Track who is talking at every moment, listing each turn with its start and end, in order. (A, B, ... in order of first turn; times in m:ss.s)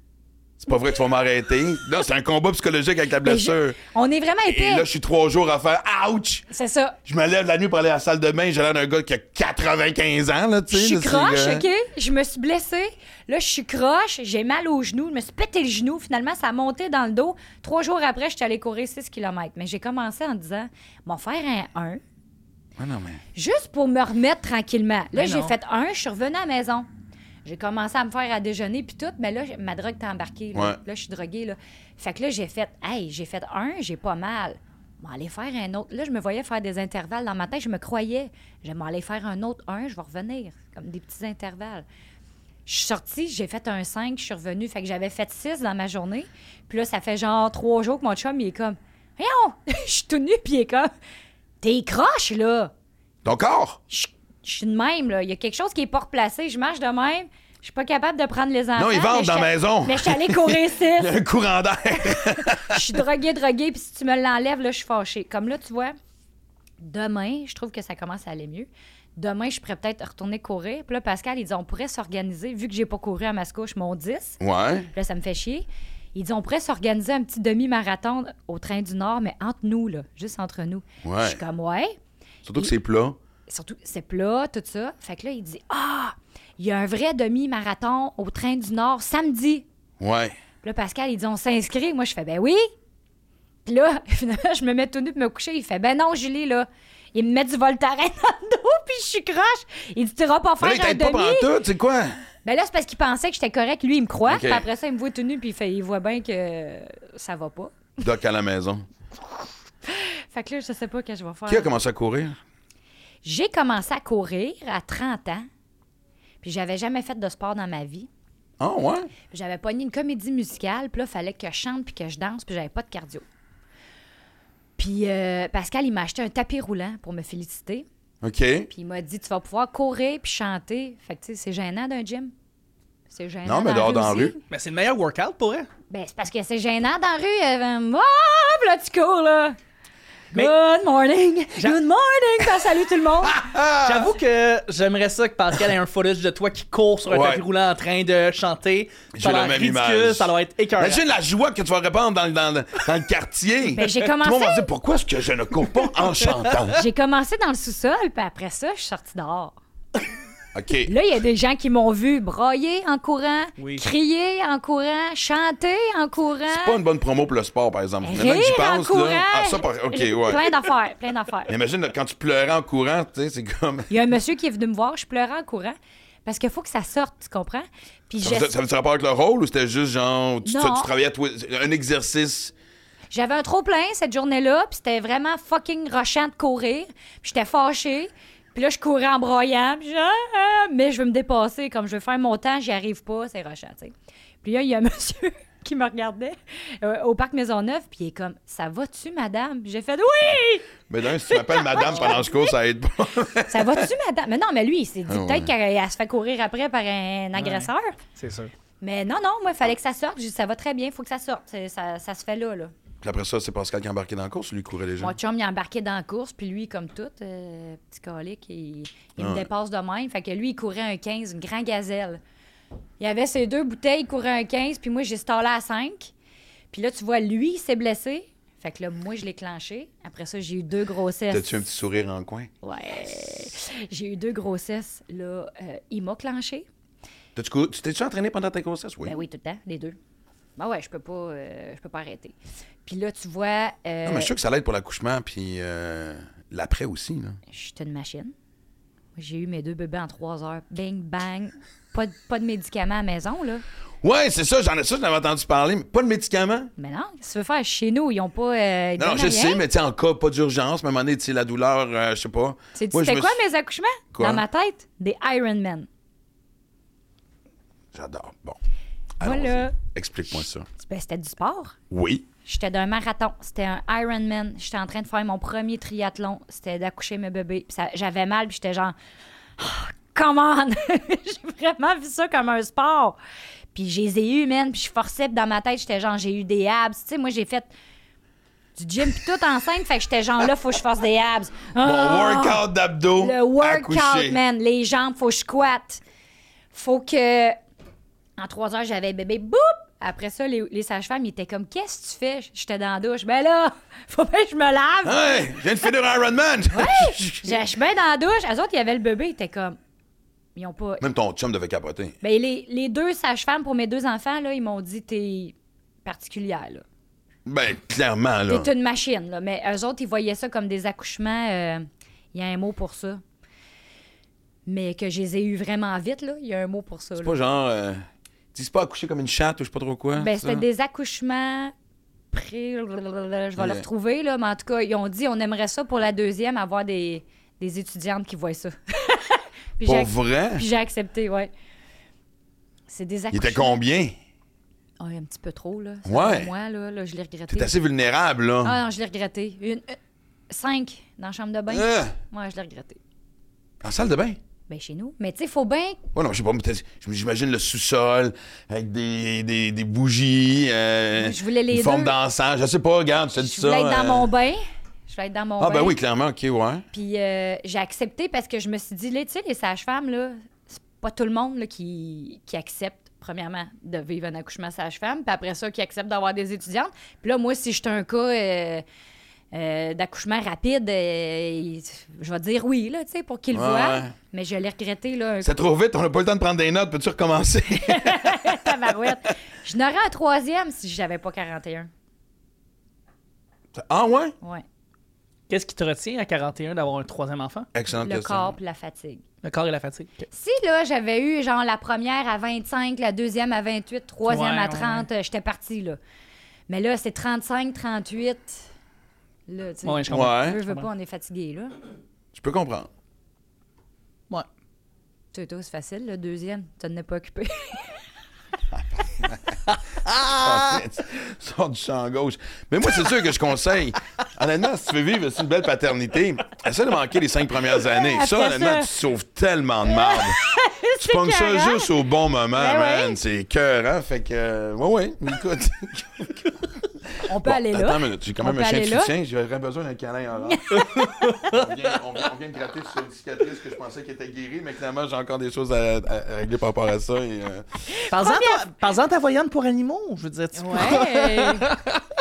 0:00.6-0:03.8 A
0:03.2-0:04.8 B
0:04.4-0:06.4 A
0:06.5-0:07.0 B
0:07.0-0:11.7 A
0:10.7-0:22.0 B
0:22.8-0:23.2 A
0:23.3-0:26.9 B
0:25.1-0:25.5 C
0:27.4-0:41.8 B
0:42.6-0:50.9 B
0:51.6-0:52.7 B
0:53.2-0:53.8 A
0:53.9-1:01.1 B
0:58.8-1:03.0 A
1:02.0-1:05.9 B
1:06.8-1:14.4 B
1:14.4-1:14.9 A
1:14.9-1:22.0 B
1:21.0-1:21.4 A
1:22.4-1:23.2 A
1:23.5-1:29.6 B
1:30.0-1:30.4 A
1:30.6-1:32.7 B
1:33.6-1:41.5 B
1:40.6-1:42.2 A
1:42.4-1:47.7 B
1:44.3-1:44.6 A
1:48.0-1:48.8 A
1:49.8-1:51.7 B
1:51.5-1:52.4 A
1:53.2-1:55.4 B
1:56.4-1:58.1 B
1:58.6-1:59.1 A
1:59.3-2:03.2 B
2:04.8-2:07.8 B
2:08.2-2:08.7 A
2:08.7-2:12.3 B
2:13.1-2:14.4 B
2:13.4-2:14.3 A
2:14.5-2:15.7 C
2:15.9-2:19.6 B
2:20.3-2:23.4 B
2:23.2-2:24.1 A
2:23.8-2:31.0 C
2:27.1-2:27.4 A
2:29.1-2:36.8 A
2:33.8-2:34.7 B
2:36.7-2:39.5 B
2:40.5-2:40.9 A
2:40.8-2:46.8 B
2:43.6-2:43.8 C
2:46.5-2:50.5 A
2:48.0-2:51.5 B
2:51.5-2:54.0 A
2:53.9-2:58.5 B
2:58.2-3:02.5 A
3:00.4-3:00.9 B
3:03.1-3:20.7 B
3:20.9-3:23.8 A
3:21.3-3:22.5 B
3:21.9-3:22.2 C
3:23.5-3:27.9 B
3:25.1-3:25.5 A
3:27.4-3:28.5 C
3:28.8-3:32.7 B
3:33.0-3:35.1 A
3:35.0-3:42.2 B
3:39.2-3:39.5 A
3:43.0-3:46.1 B
3:46.7-3:51.6 B
3:51.3-3:52.5 A
3:52.6-3:56.6 B
3:57.4-3:59.2 A
3:59.0-4:00.0 B
4:00.6-4:02.3 B
4:02.8-4:04.3 B
4:04.0-4:07.4 A
4:07.5-4:08.3 B
4:09.2-4:13.6 B
4:14.0-4:16.7 A
4:16.8-4:19.6 B
4:19.0-4:23.4 A
4:22.7-4:25.9 B
4:24.1-4:24.4 A
4:27.9-4:28.6 A
4:29.2-4:30.7 A
4:29.2-4:29.8 B
4:30.8-4:31.8 B
4:31.9-4:32.2 A
4:32.4-4:38.9 B
4:39.6-4:43.2 B
4:43.7-4:47.7 B
4:48.8-4:52.6 B
4:51.8-4:54.4 A
4:53.2-4:56.0 B
4:56.7-4:57.6 B
4:58.4-5:05.4 B
5:05.0-5:07.5 A
5:06.7-5:09.8 B
5:10.6-5:11.0 B
5:11.0-5:12.1 A
5:12.2-5:16.8 B
5:17.4-5:18.7 A
5:18.5-5:23.2 B
5:24.6-5:27.4 B
5:27.2-5:30.6 A
5:30.2-5:31.7 B
5:32.3-5:41.5 B
5:33.6-5:33.8 A
5:39.8-5:40.6 A
5:42.9-5:43.7 B
5:43.3-5:44.1 A
5:45.0-5:47.7 B
5:46.0-5:46.5 A
5:47.5-5:48.8 A
5:48.6-5:50.0 B
5:50.5-5:53.0 B
5:51.7-5:52.2 A
5:53.8-5:54.4 A
5:54.7-5:56.0 B
5:56.1-6:04.3 A
6:01.2-6:02.1 B
6:03.4-6:06.0 B
6:05.6-6:06.8 A
6:06.9-6:18.8 B
6:19.5-6:25.5 B
6:23.5-6:24.1 A
6:25.4-6:28.7 A
6:27.9-6:31.9 B
6:33.7-6:34.4 A
6:35.5-6:37.7 C
6:37.7-6:38.5 A
6:38.0-6:39.2 B
6:39.4-6:40.3 C
6:40.3-6:46.0 B
6:44.2-6:45.1 C
6:46.7-6:48.6 B
6:49.5-6:51.7 B
6:49.8-6:50.9 C
6:50.1-6:50.6 A
6:52.3-6:52.9 A
6:55.3-6:58.0 B
7:00.0-7:00.8 C
7:00.2-7:10.4 A
7:07.9-7:08.9 B
7:09.9-7:11.9 B
7:11.0-7:16.5 A
7:12.5-7:13.2 B
7:17.1-7:27.8 A
7:17.3-7:19.1 B
7:20.4-7:21.4 B
7:20.7-7:21.7 C
7:28.0-7:28.7 B
7:28.1-7:32.0 C
7:30.6-7:31.7 B